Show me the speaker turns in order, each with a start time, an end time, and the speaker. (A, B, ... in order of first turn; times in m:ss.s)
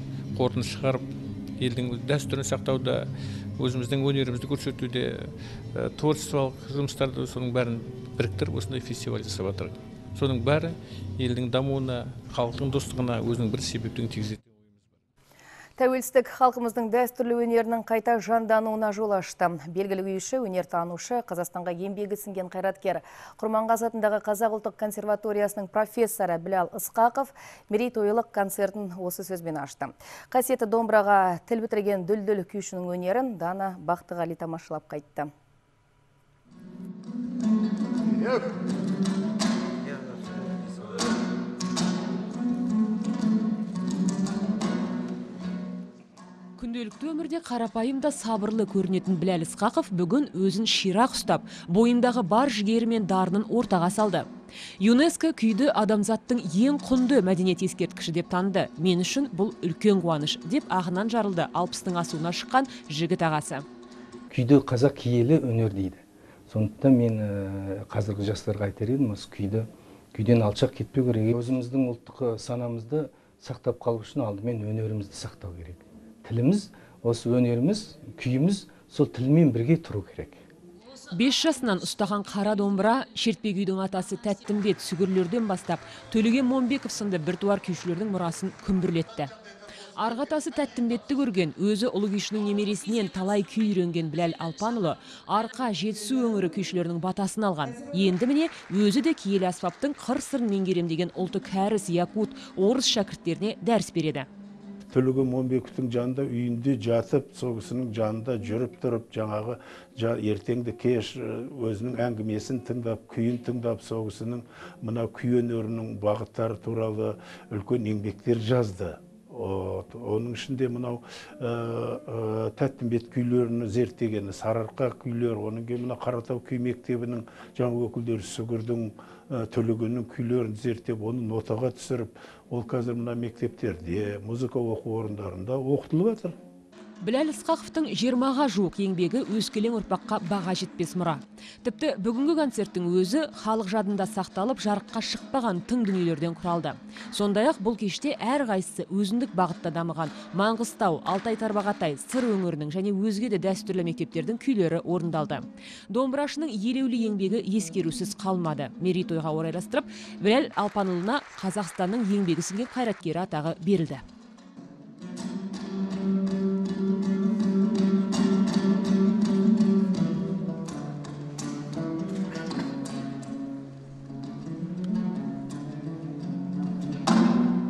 0:00.3-0:14.4 A
0:15.8-0:35.3 B
0:46.6-0:54.2 C
0:54.8-1:03.6 C
1:04.3-1:20.4 D
1:21.2-1:29.3 C
1:30.0-1:44.3 C
1:44.9-2:16.4 E
2:17.0-2:44.0 C